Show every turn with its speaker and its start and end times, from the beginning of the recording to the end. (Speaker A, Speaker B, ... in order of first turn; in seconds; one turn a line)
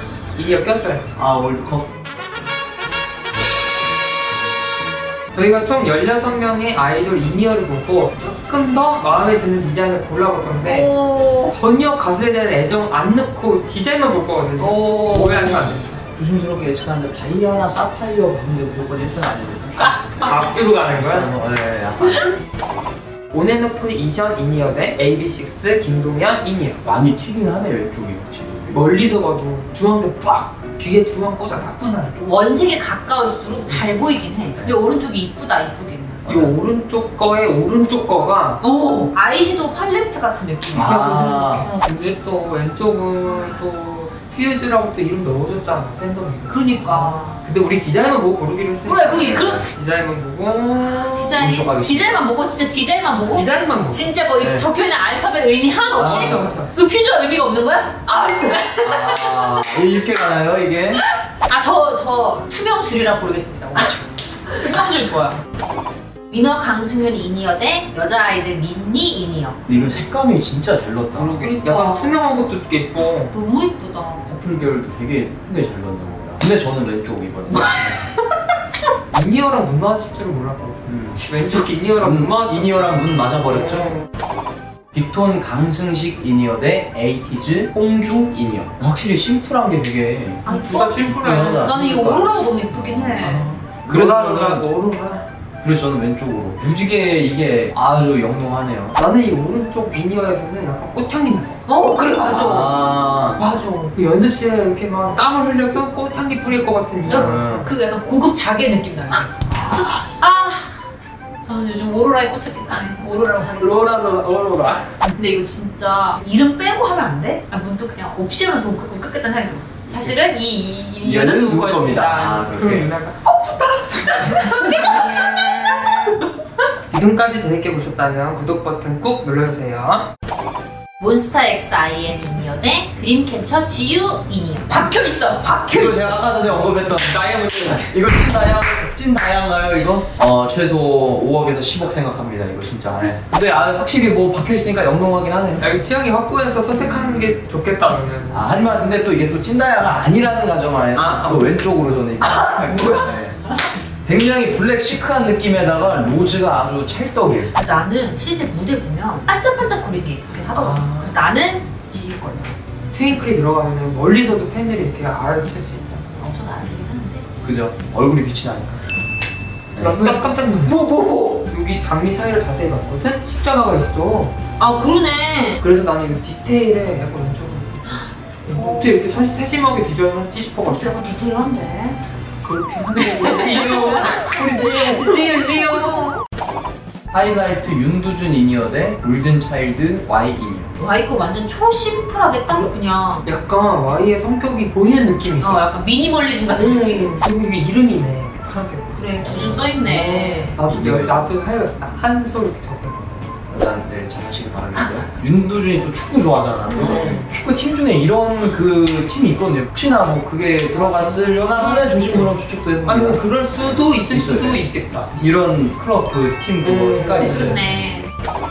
Speaker A: 0.3-1.2
Speaker B: 1.2-1.9
Speaker A: 5.3-10.9
Speaker C: 10.6-11.6
Speaker A: 11.5-16.0
Speaker C: 14.6-15.7
Speaker B: 16.1-20.0
Speaker C: 19.8-20.6
Speaker A: 20.1-21.3
Speaker B: 20.8-22.3
Speaker A: 23.3-26.8
Speaker B: 26.8-28.9
Speaker A: 28.7-32.5
Speaker C: 32.2-36.3
Speaker B: 36.2-36.5
Speaker A: 36.3-38.6
Speaker C: 38.6-41.0
Speaker B: 40.7-41.7
Speaker A: 40.8-51.4
Speaker C: 46.5-47.4
Speaker C: 48.8-49.7
Speaker B: 49.1-49.7
Speaker C: 50.8-59.5
Speaker B: 51.4-52.2
Speaker A: 53.3-54.1
Speaker B: 54.4-54.7
Speaker A: 56.0-56.7
Speaker B: 56.0-56.5
Speaker B: 58.8-61.0
Speaker C: 61.3-65.4
Speaker C: 66.3-69.6
Speaker B: 69.7-71.4
Speaker A: 71.1-73.3
Speaker C: 71.4-72.2
Speaker C: 73.3-74.3
Speaker B: 74.2-78.0
Speaker C: 77.5-78.2
Speaker A: 79.1-84.0
Speaker B: 80.9-81.2
Speaker B: 82.0-84.0
Speaker B: 84.9-90.4
Speaker C: 90.4-93.5
Speaker A: 90.5-91.7
Speaker B: 91.0-94.6
Speaker A: 93.2-95.3
Speaker B: 95.6-98.9
Speaker A: 99.0-101.6
Speaker C: 101.7-103.9
Speaker B: 102.2-103.4
Speaker A: 103.4-107.7
Speaker C: 107.0-110.8
Speaker B: 107.1-107.7
Speaker C: 111.4-114.0
Speaker A: 113.6-114.9
Speaker C: 115.0-122.5
Speaker B: 121.0-122.9
Speaker A: 122.5-126.2
Speaker C: 124.3-126.2
Speaker A: 126.9-130.1
Speaker C: 131.0-136.2
Speaker B: 135.7-145.6
Speaker A: 136.9-137.9
Speaker A: 145.6-148.4
Speaker B: 146.8-147.4
Speaker B: 148.3-153.4
Speaker A: 150.9-151.5
Speaker A: 152.2-153.1
Speaker B: 154.0-157.6
Speaker C: 157.5-162.8
Speaker B: 160.5-161.1
Speaker A: 162.9-166.1
Speaker C: 166.1-167.2
Speaker B: 167.4-168.9
Speaker A: 169.8-174.3
Speaker C: 169.8-170.7
Speaker C: 174.6-175.6
Speaker A: 175.6-181.0
Speaker C: 178.5-179.1
Speaker C: 180.6-182.0
Speaker A: 182.4-185.5
Speaker C: 182.9-186.2
Speaker B: 187.1-190.7
Speaker C: 190.8-193.2
Speaker A: 192.5-195.6
Speaker C: 195.4-197.2
Speaker A: 196.5-203.2
Speaker C: 198.9-200.6
Speaker B: 200.6-201.3
Speaker B: 203.5-214.6
Speaker C: 206.7-207.2
Speaker A: 206.7-207.3
Speaker A: 210.8-212.3
Speaker A: 212.8-215.3
Speaker B: 215.2-217.6
Speaker A: 216.6-217.7
Speaker C: 217.3-218.1